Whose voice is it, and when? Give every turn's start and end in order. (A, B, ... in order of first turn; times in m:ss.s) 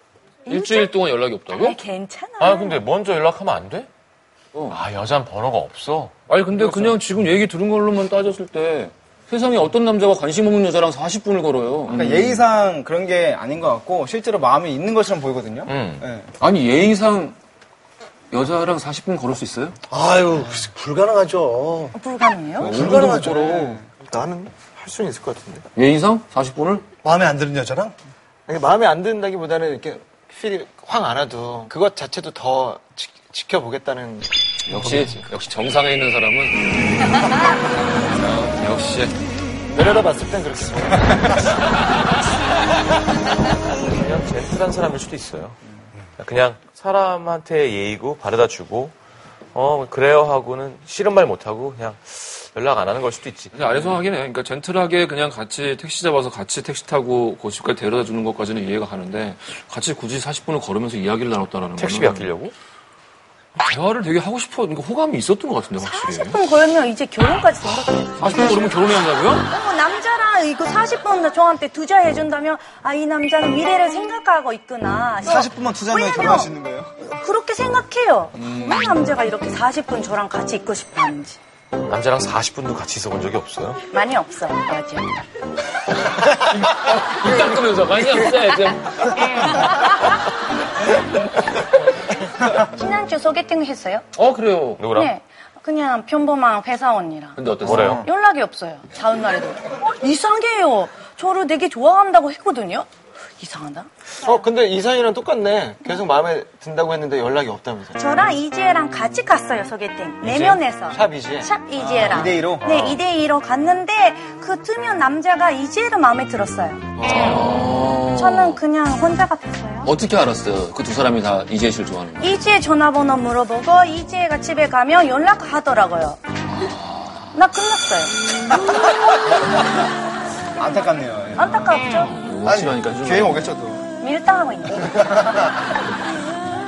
0:00.5-0:00.9 A
0:00.5-0:01.8 B
0:01.5-0:02.8 A
0:02.4-0:03.9 C
0:04.5-0:04.8 B
0:04.7-0:06.1 C
0:06.3-0:12.3 B
0:11.9-0:16.3 D
0:15.7-0:16.0 C
0:16.4-0:17.4 B
0:18.3-0:19.8 B
0:19.9-0:22.0 E
0:22.0-0:22.7 A
0:22.6-0:23.8 E
0:22.6-0:25.6 F
0:23.2-0:23.8 D
0:25.8-0:26.8 B
0:27.0-0:28.0 E
0:28.5-0:35.3 F
0:34.7-0:37.4 B
0:38.0-0:39.2 B
0:39.7-0:41.5 F
0:43.5-0:45.6 C
0:46.2-0:49.0 C
0:49.5-0:53.9 C
0:53.5-1:02.3 B
1:01.8-1:02.5 C
1:03.6-1:06.4 B
1:05.8-1:08.6 A
1:08.2-1:09.5 B
1:09.5-1:16.5 A
1:15.2-1:16.9 D
1:17.1-1:21.4 A
1:21.9-1:23.8 C
1:23.9-1:25.2 A
1:26.3-1:29.6 B
1:32.6-1:34.0 A
1:34.2-1:34.9 B
1:34.8-1:35.1 C
1:34.9-1:42.9 A
1:37.4-1:38.0 B
1:37.7-1:38.0 C
1:37.7-1:38.0 F
1:43.4-1:43.9 A
1:44.2-1:48.1 F
1:48.0-1:57.0 A
1:50.3-1:52.2 F
1:51.9-1:52.7 D
1:52.3-1:53.0 C
1:57.0-1:57.5 F
1:57.3-1:58.6 B
1:58.1-1:59.9 A
1:59.8-2:02.3 B
2:02.2-2:06.2 A
2:07.3-2:08.2 A
2:10.6-2:11.7 D
2:11.4-2:12.2 A
2:12.0-2:13.5 B
2:12.4-2:12.8 E
2:12.8-2:13.8 D
2:14.0-2:15.0 A